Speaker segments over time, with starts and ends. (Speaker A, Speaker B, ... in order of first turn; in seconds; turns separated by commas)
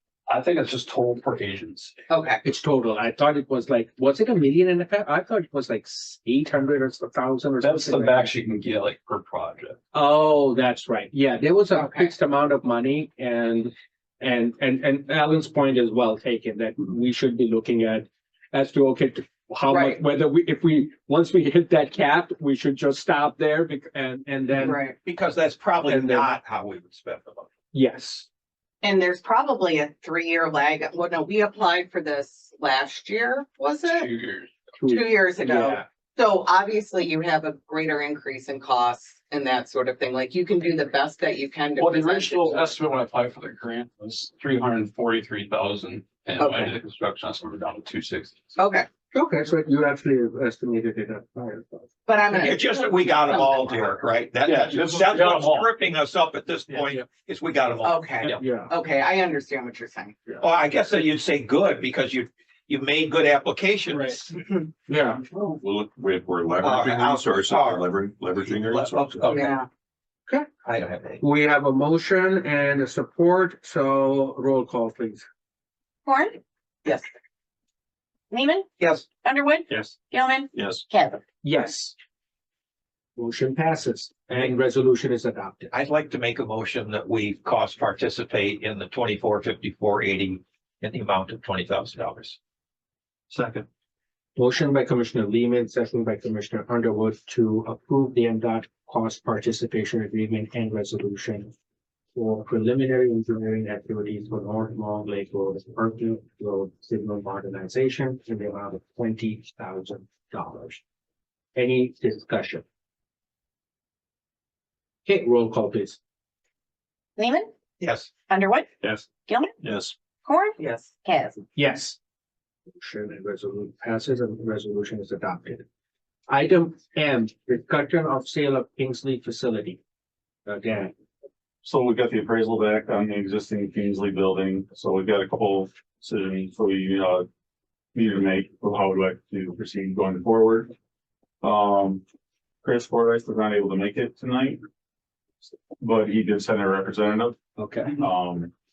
Speaker A: 0.3-2.0, Speaker B: 2.1-2.4, Speaker C: 2.4-8.3, Speaker A: 7.6-9.8, Speaker C: 9.9-24.8, Speaker B: 11.7-12.1, Speaker B: 19.7-20.0, Speaker B: 24.6-24.9, Speaker D: 25.0-27.5, Speaker C: 25.9-26.3, Speaker C: 27.7-28.3, Speaker B: 28.8-34.1, Speaker A: 33.8-34.5, Speaker C: 34.8-35.8, Speaker B: 34.9-42.7, Speaker A: 41.8-48.6, Speaker C: 46.4-46.7, Speaker B: 48.6-48.9, Speaker C: 49.1-52.5, Speaker B: 52.1-53.9, Speaker D: 52.4-58.4, Speaker A: 54.4-55.7, Speaker C: 56.7-57.0, Speaker B: 57.8-60.3, Speaker C: 58.2-58.7, Speaker D: 60.4-64.4, Speaker C: 64.9-65.2, Speaker E: 65.3-69.4, Speaker D: 66.6-69.5, Speaker B: 69.3-69.7, Speaker D: 70.6-71.2, Speaker C: 71.2-75.2, Speaker F: 76.1-76.4, Speaker F: 78.3-78.7, Speaker D: 78.8-79.1, Speaker F: 79.2-81.2, Speaker E: 80.6-80.8, Speaker C: 81.4-82.0, Speaker C: 83.2-85.7, Speaker D: 85.7-92.4, Speaker A: 93.3-93.7, Speaker C: 94.4-101.5, Speaker C: 102.1-110.8, Speaker C: 111.5-112.6, Speaker C: 115.1-116.0, Speaker F: 117.2-117.5, Speaker D: 117.8-118.1, Speaker F: 118.3-118.7, Speaker F: 119.2-119.5, Speaker E: 119.6-119.9, Speaker F: 120.2-121.4, Speaker B: 120.6-120.9, Speaker C: 121.5-122.0, Speaker C: 122.8-125.7, Speaker C: 126.3-129.8, Speaker C: 130.5-130.9, Speaker G: 131.6-137.3, Speaker G: 137.9-140.7, Speaker G: 141.4-142.0, Speaker G: 142.6-144.6, Speaker G: 145.8-147.4, Speaker C: 147.6-147.9, Speaker G: 148.0-148.5